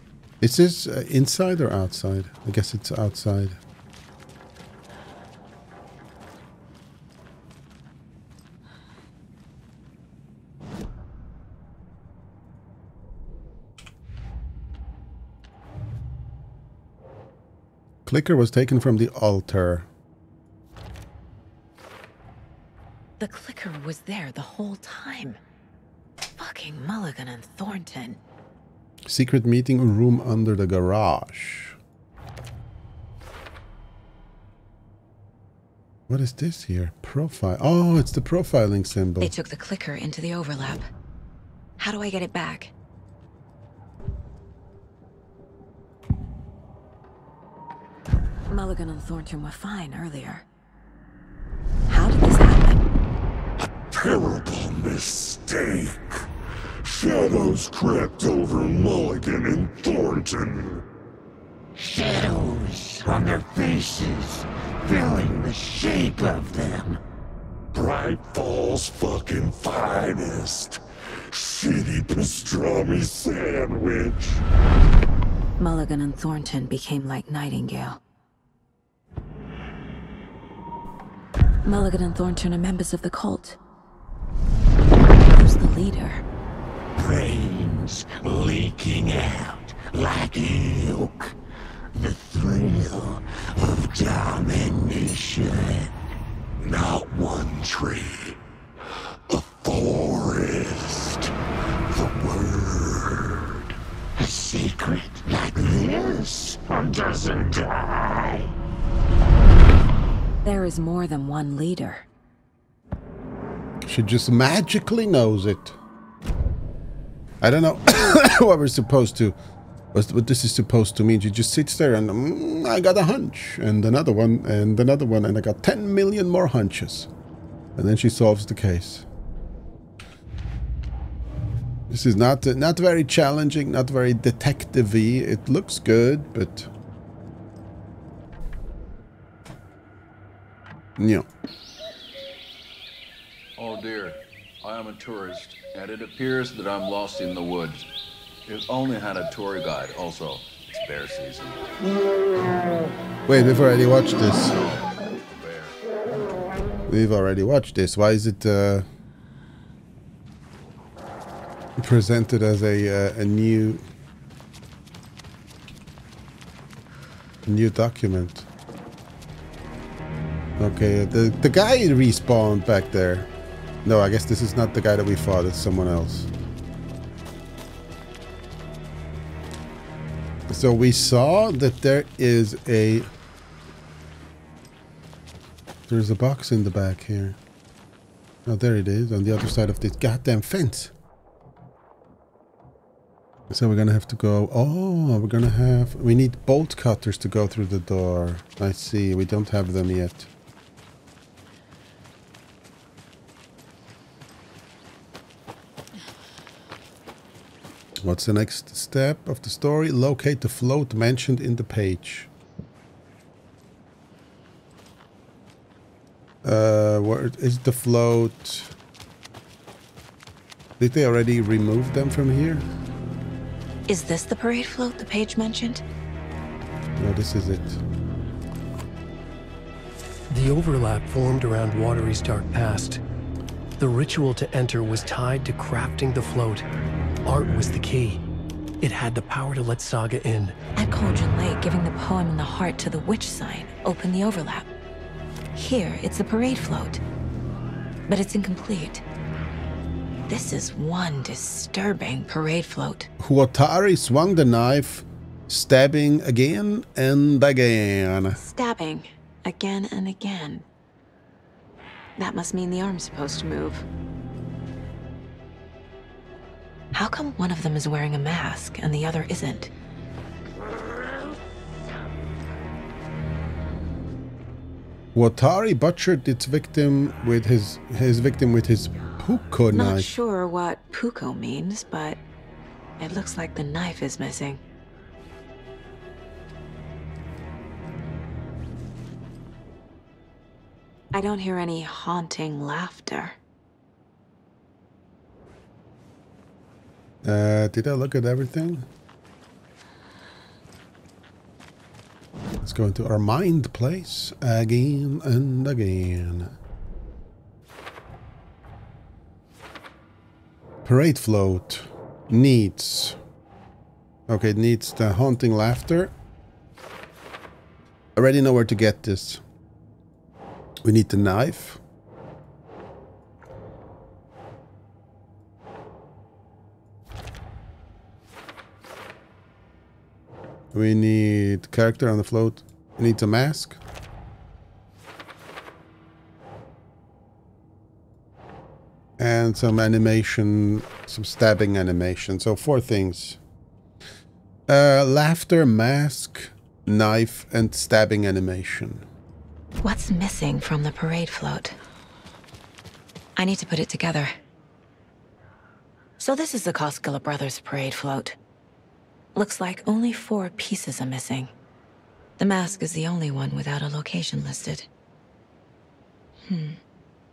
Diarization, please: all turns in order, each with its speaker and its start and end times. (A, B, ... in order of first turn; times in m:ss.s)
0:00.4-0:03.6 A
0:18.1-0:19.9 A
0:23.2-0:25.4 B
0:26.4-0:28.2 B
0:29.1-0:31.8 A
0:36.1-0:39.3 A
0:39.2-0:40.9 B
0:41.8-0:42.7 B
0:48.5-0:50.4 B
0:51.9-0:52.8 B
0:53.8-0:56.3 C
0:56.8-1:00.8 C
1:01.8-1:07.0 C
1:07.7-1:14.4 C
1:15.6-1:18.0 B
1:21.6-1:23.6 B
1:25.3-1:26.2 B
1:27.0-1:31.3 C
1:31.9-1:35.9 C
1:36.6-1:38.4 C
1:39.3-1:41.3 C
1:41.9-1:43.6 C
1:44.2-1:48.5 C
1:50.4-1:52.0 B
1:53.8-1:55.8 A
1:57.4-1:59.4 A
1:59.9-2:07.1 A
2:07.8-2:09.1 A
2:11.9-2:16.7 A
2:21.0-2:21.3 A
2:23.6-2:27.9 D
2:28.5-2:31.8 D
2:33.3-2:34.6 A
2:34.3-2:35.8 D
2:36.9-2:38.9 A
2:41.8-2:43.8 A
2:47.5-2:48.5 A
2:50.6-2:53.3 A
2:53.8-2:56.3 A
3:00.5-3:03.1 A
3:05.9-3:07.4 A
3:08.5-3:10.9 A
3:13.5-3:20.3 A
3:28.0-3:32.3 A
3:36.4-3:38.7 A
3:40.8-3:42.7 A
3:43.9-3:45.8 B
3:47.0-3:47.8 A
3:50.3-3:53.0 E
3:53.8-3:56.6 E
3:57.3-3:58.2 E
3:58.8-4:00.6 E
4:00.8-4:04.7 B
4:05.6-4:07.0 B
4:08.1-4:09.0 B
4:10.3-4:13.1 B
4:13.2-4:18.4 A
4:18.4-4:20.6 B
4:22.2-4:23.8 B
4:26.9-4:29.7 B
4:35.2-4:40.1 A
4:39.7-4:42.2 B
4:43.0-4:44.6 B
4:51.1-4:53.4 B
4:57.2-4:58.9 A
5:02.6-5:06.6 A
5:10.8-5:13.2 A
5:14.3-5:16.1 A
5:18.2-5:19.4 A
5:20.8-5:21.8 A
5:30.7-5:33.8 A
5:39.2-5:43.4 A
5:44.7-5:49.1 A
5:49.8-5:51.8 B
5:53.4-5:54.3 B
5:56.2-5:58.4 B
5:59.4-6:01.5 B
6:02.4-6:04.9 B
6:06.5-6:06.8 B